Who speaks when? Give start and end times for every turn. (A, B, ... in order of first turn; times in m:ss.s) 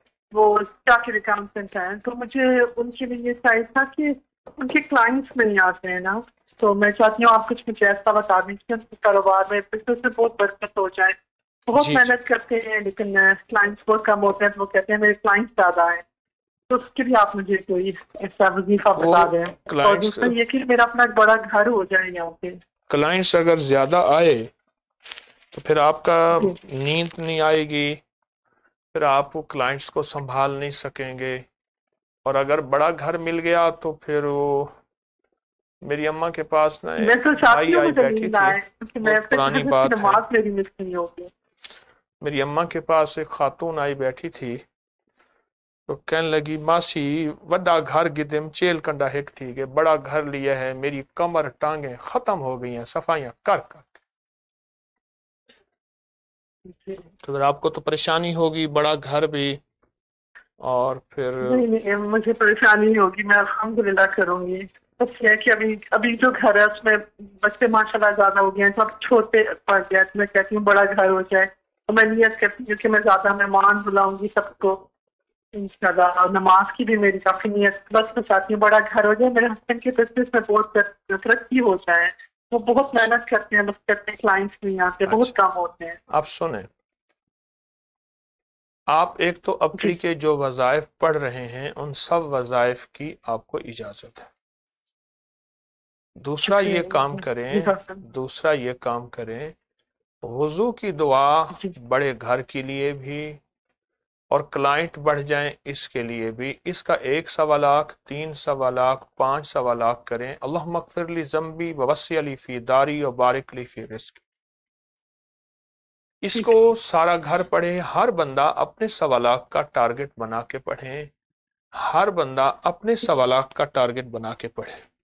0:00.3-0:11.2 A
0:11.7-0:16.0 A
0:11.8-0:12.1 B
0:16.7-0:22.6 A
0:19.0-0:20.4 B
0:22.9-0:24.5 B
0:25.5-0:28.0 B
0:28.9-0:31.4 B
0:32.2-0:34.7 B
0:35.8-0:40.2 B
0:37.0-0:41.3 A
0:42.2-0:44.6 B
0:45.9-0:54.0 B
0:56.7-0:57.1 A
0:57.2-0:59.6 B
1:00.6-1:01.6 B
1:01.4-1:14.9 A
1:15.5-1:26.0 A
1:25.1-1:25.3 B
1:26.1-1:26.7 B
1:28.9-1:34.3 B
1:36.2-1:39.6 B
1:36.5-1:38.0 A
1:40.2-1:43.4 B
1:44.3-1:54.2 B
1:56.2-2:01.1 B
2:01.8-2:04.8 B